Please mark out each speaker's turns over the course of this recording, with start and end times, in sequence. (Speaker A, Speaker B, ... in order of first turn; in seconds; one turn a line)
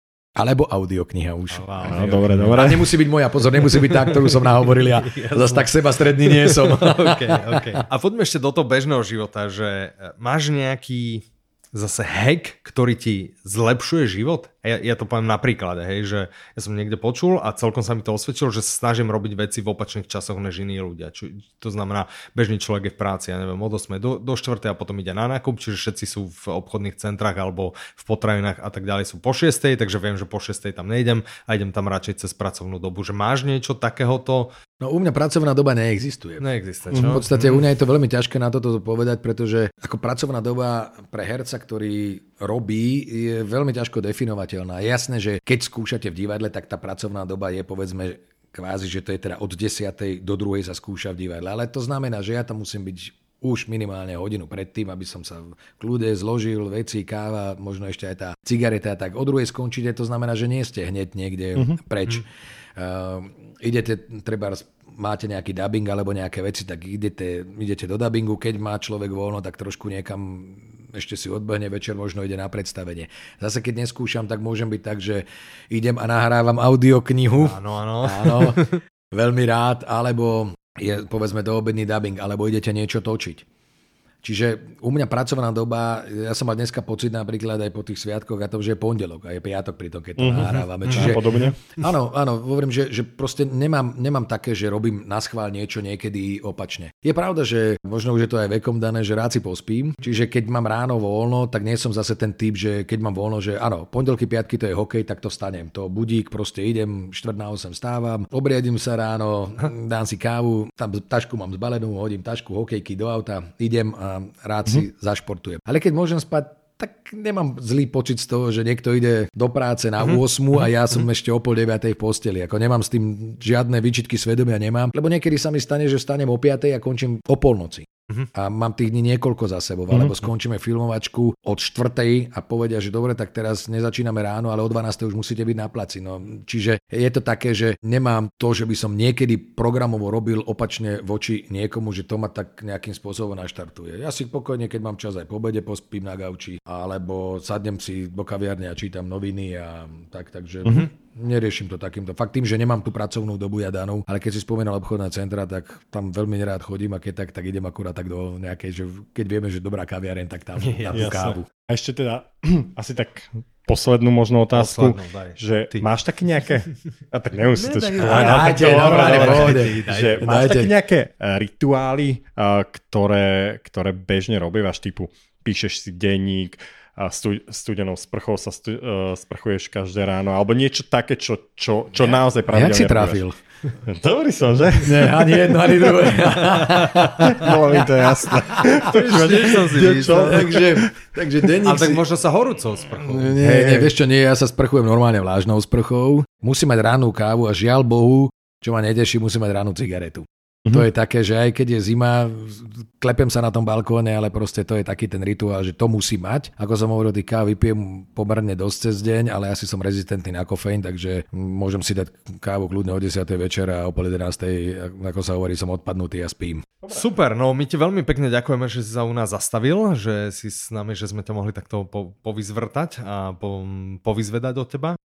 Speaker A: 0.3-7.8
Speaker B: 1.5-34.5
Speaker C: 1.9-2.8
Speaker A: 34.8-62.2
Speaker B: 36.4-37.6
Speaker A: 62.8-83.5
Speaker B: 77.4-78.8
Speaker A: 84.2-161.5
Speaker C: 90.2-91.6
Speaker B: 90.8-91.2
Speaker B: 160.6-161.4
Speaker C: 160.9-183.2
Speaker B: 164.5-165.9
Speaker B: 167.5-170.4
Speaker A: 168.0-170.7
Speaker A: 182.5-183.4
Speaker C: 183.8-186.1
Speaker A: 184.8-192.0
Speaker B: 186.5-187.5
Speaker C: 186.7-190.9
Speaker B: 188.8-190.5
Speaker B: 191.6-193.3
Speaker A: 193.0-216.7
Speaker C: 193.3-193.9
Speaker B: 216.9-225.0